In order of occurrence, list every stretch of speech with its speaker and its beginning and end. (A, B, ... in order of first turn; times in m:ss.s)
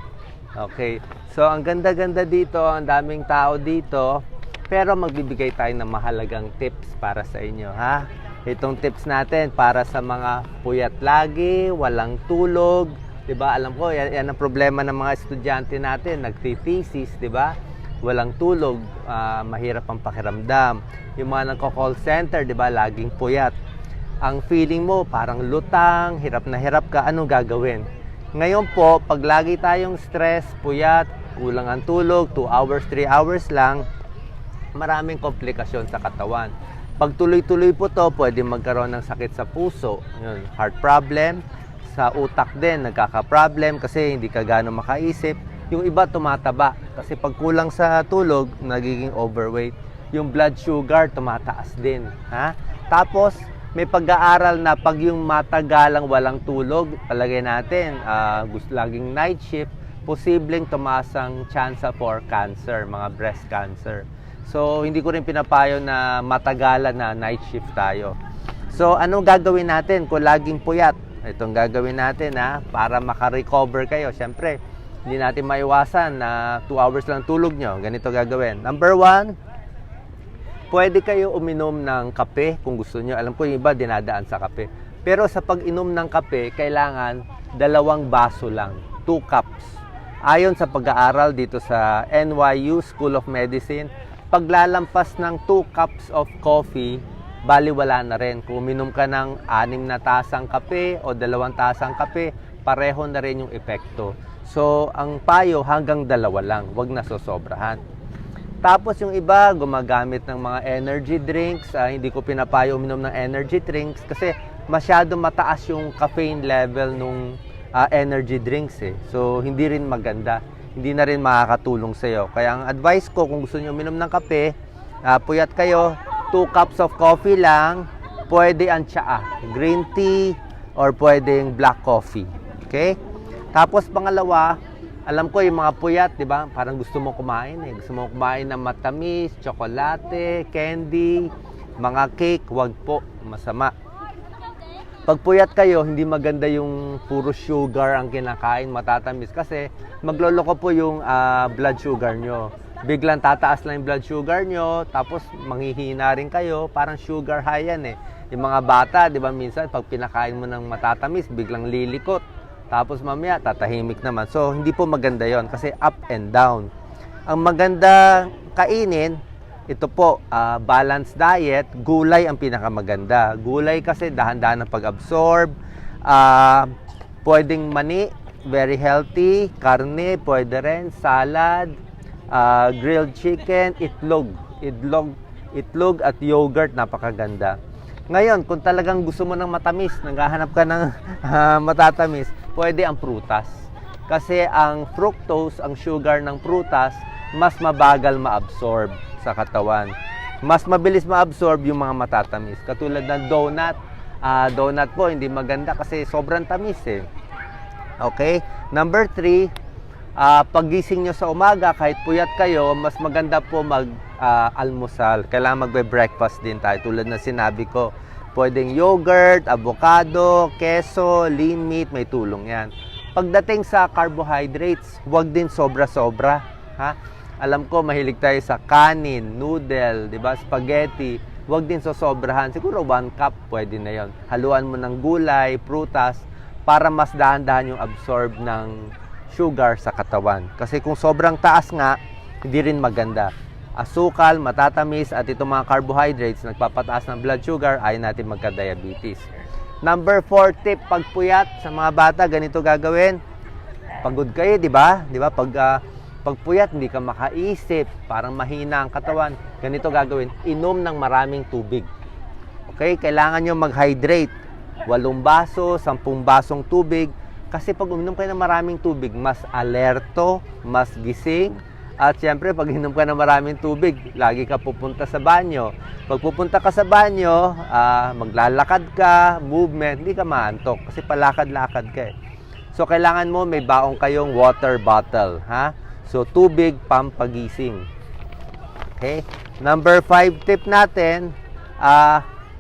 0:00.6-0:23.5 A
0:24.2-0:33.9 A
0:34.8-1:08.2 A
1:08.7-1:19.4 A
1:20.7-1:47.8 A
1:48.6-2:13.0 A
2:13.5-2:23.7 A
2:25.1-2:46.7 A
2:47.3-2:55.5 A
2:56.0-2:56.7 A
2:57.2-3:01.8 A
3:02.3-3:07.6 A
3:08.1-3:19.9 A
3:20.4-3:27.1 A
3:28.0-3:29.5 A
3:30.2-4:09.3 A
4:09.8-4:13.2 A
4:14.0-4:21.9 A
4:22.7-4:24.3 A
4:24.9-4:42.1 A
4:42.7-4:47.9 A
4:49.0-4:52.3 A